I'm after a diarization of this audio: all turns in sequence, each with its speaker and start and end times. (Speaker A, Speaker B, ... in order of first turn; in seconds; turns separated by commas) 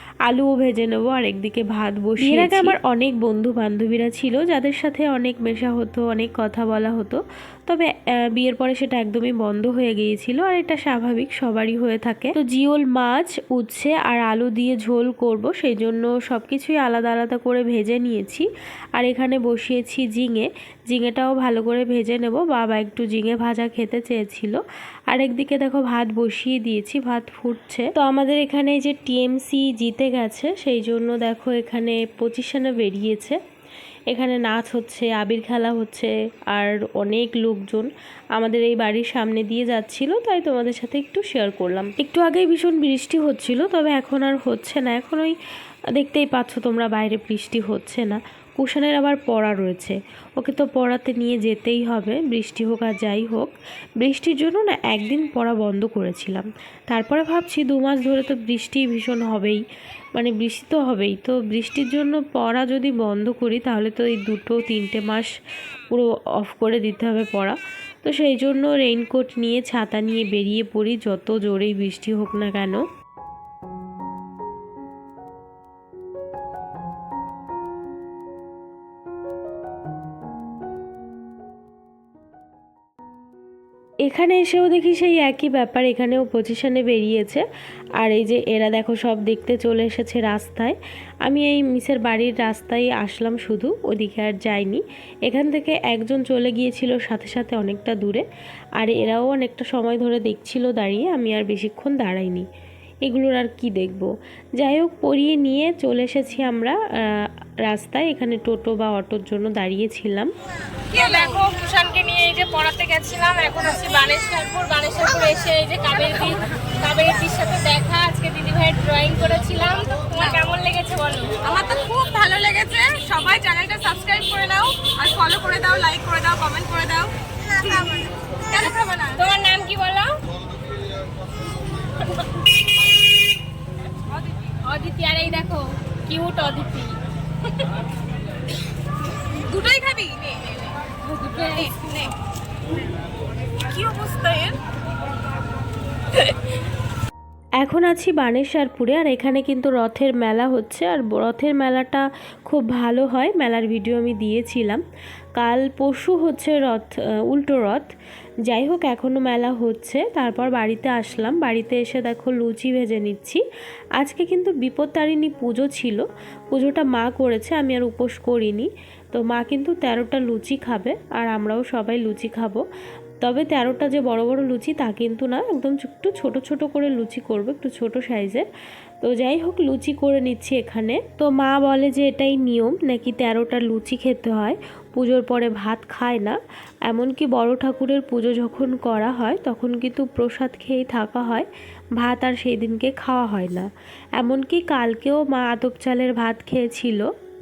Speaker A: 0.3-24.6, Speaker A: 25.1-33.4, Speaker A: 34.1-45.4, Speaker A: 45.9-59.6, Speaker A: 60.1-65.3, Speaker A: 65.9-72.8, Speaker A: 84.0-87.4, Speaker A: 88.0-98.2, Speaker A: 98.8-102.5, Speaker A: 103.0-110.3, Speaker B: 110.9-130.1, Speaker C: 121.5-127.1, Speaker C: 128.7-129.2, Speaker B: 134.6-136.9, Speaker C: 139.4-140.5, Speaker B: 139.5-140.2, Speaker B: 141.1-142.1, Speaker C: 143.6-144.6, Speaker A: 147.6-154.8, Speaker A: 155.4-157.8, Speaker A: 158.5-163.4, Speaker A: 164.0-172.6, Speaker A: 173.2-178.5, Speaker A: 179.0-186.4, Speaker A: 186.9-191.5, Speaker A: 192.0-197.1